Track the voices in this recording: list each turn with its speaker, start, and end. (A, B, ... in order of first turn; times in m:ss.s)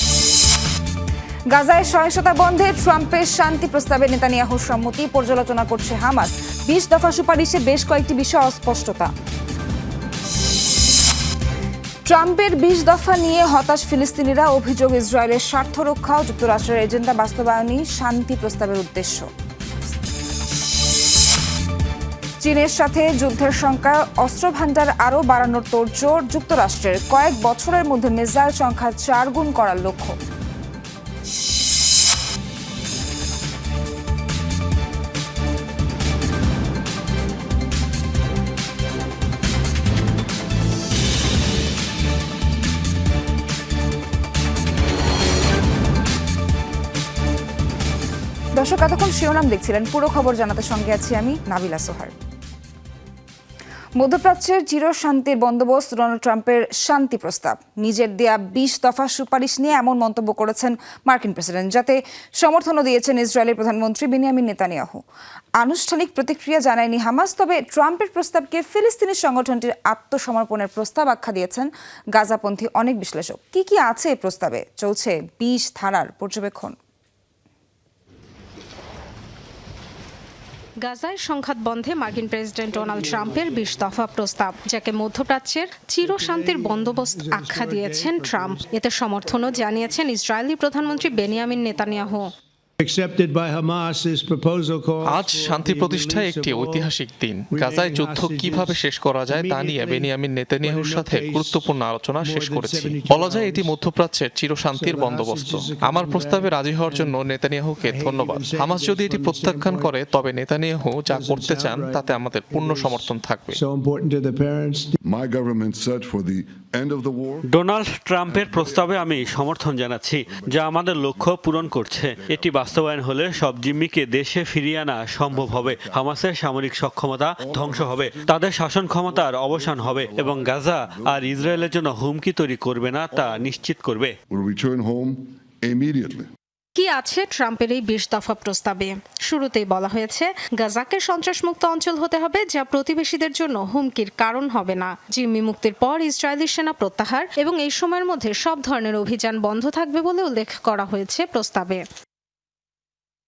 0:01.5-0:09.1 A
0:12.1-0:19.3 A
0:22.4-0:30.2 A
0:48.6-0:52.1 A
0:54.0-1:05.0 A
1:05.6-1:16.8 A
1:20.8-1:32.3 B
1:22.7-1:24.1 C
1:26.0-1:28.7 C
1:29.4-1:29.7 C
1:30.8-1:31.5 C
1:32.8-1:36.9 C
1:35.0-1:53.6 D
1:37.5-1:40.1 C
1:40.6-1:41.6 C
1:42.2-1:43.7 C
1:44.8-1:47.1 C
1:47.8-1:50.0 C
1:51.1-1:54.9 C
1:55.0-1:57.4 E
1:57.5-2:14.1 F
1:58.3-1:59.4 E
2:00.4-2:02.9 E
2:05.3-2:06.1 E
2:07.4-2:08.3 E
2:09.1-2:11.7 E
2:14.3-2:16.3 E
2:16.8-2:31.8 B